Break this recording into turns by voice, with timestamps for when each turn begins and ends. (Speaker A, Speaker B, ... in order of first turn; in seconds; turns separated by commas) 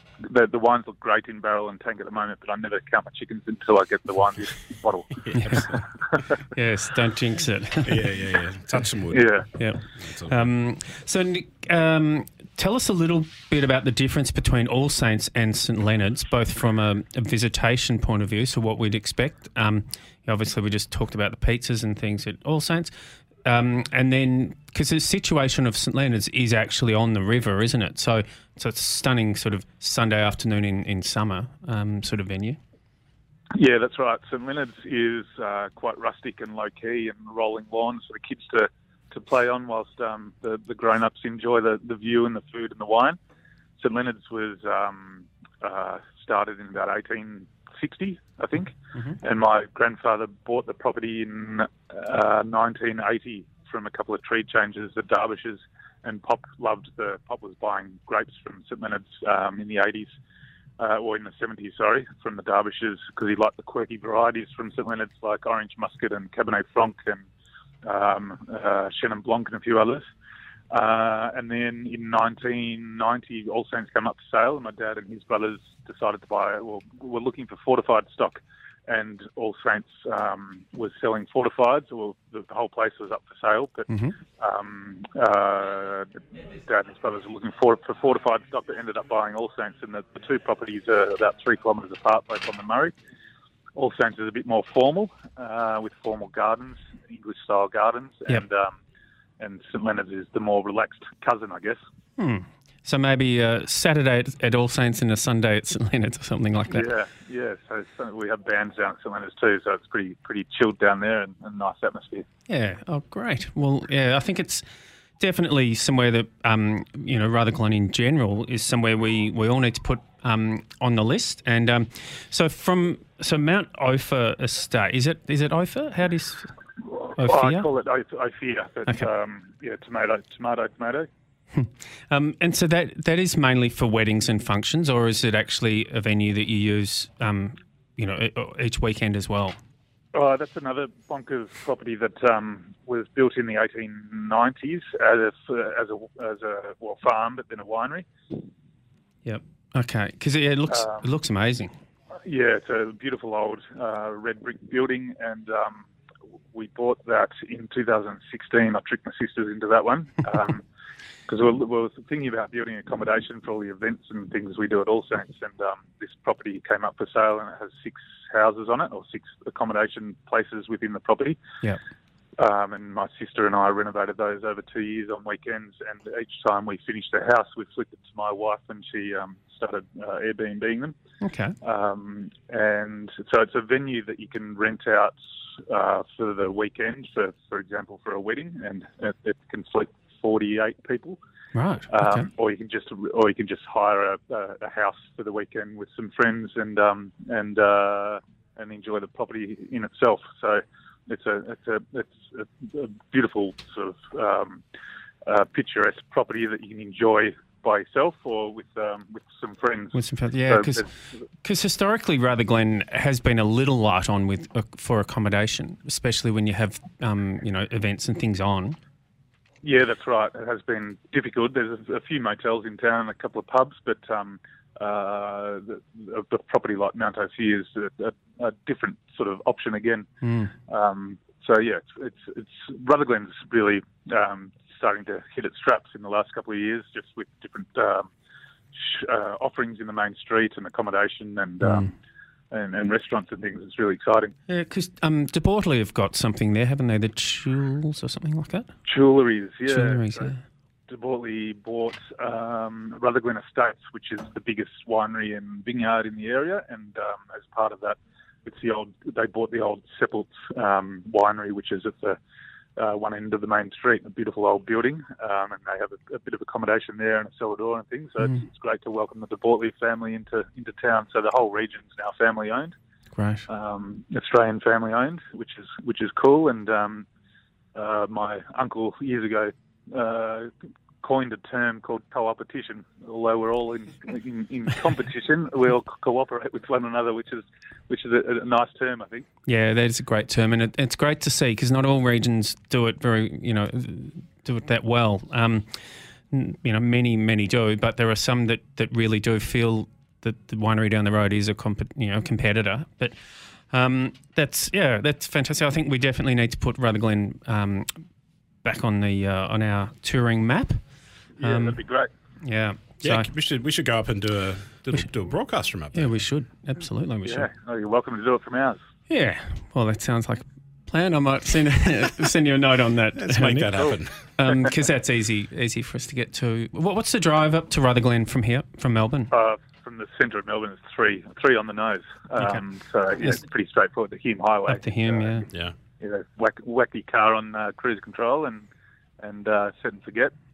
Speaker A: 0.2-6.2, Speaker B: 5.2-5.7, Speaker C: 5.3-5.8, Speaker C: 6.5-8.1, Speaker B: 7.8-9.2, Speaker A: 9.1-9.5, Speaker C: 9.6-22.9, Speaker B: 10.0-10.4, Speaker C: 23.4-32.6, Speaker A: 33.5-43.2, Speaker A: 43.8-60.1, Speaker A: 60.8-67.2, Speaker A: 67.8-70.0, Speaker A: 70.7-92.9, Speaker C: 83.9-84.2, Speaker A: 93.8-98.8, Speaker A: 99.4-101.8, Speaker C: 102.2-106.9, Speaker A: 106.7-112.2, Speaker C: 112.5-114.7, Speaker C: 115.2-126.5, Speaker A: 127.0-131.1, Speaker C: 127.2-127.7, Speaker C: 131.5-139.6, Speaker A: 140.1-148.1, Speaker C: 149.2-151.7, Speaker A: 150.7-151.0, Speaker A: 152.2-155.9, Speaker A: 156.5-160.6, Speaker A: 161.3-171.4, Speaker A: 172.4-180.9, Speaker C: 181.2-181.5, Speaker A: 181.6-191.2, Speaker C: 191.5-192.3, Speaker A: 191.9-204.6, Speaker A: 205.2-210.9, Speaker C: 209.9-210.9, Speaker C: 211.4-218.8, Speaker A: 219.6-230.1, Speaker C: 230.2-230.5, Speaker A: 230.7-238.1, Speaker A: 238.7-241.9, Speaker C: 241.6-241.9, Speaker A: 242.5-244.3, Speaker C: 244.5-248.7, Speaker A: 248.9-250.3, Speaker C: 249.7-250.4, Speaker A: 250.9-262.2, Speaker A: 262.8-272.7, Speaker C: 273.1-273.5, Speaker A: 273.5-277.1, Speaker A: 277.7-289.3, Speaker C: 289.5-303.2, Speaker C: 303.7-308.0, Speaker C: 308.6-310.8, Speaker A: 311.4-312.1, Speaker C: 311.4-311.8, Speaker C: 312.4-313.3, Speaker B: 313.0-316.2, Speaker C: 315.9-317.5, Speaker A: 317.2-318.8, Speaker C: 319.1-329.3, Speaker B: 323.1-324.2, Speaker A: 329.3-335.4, Speaker C: 334.7-335.5, Speaker A: 336.0-338.7, Speaker A: 339.2-340.3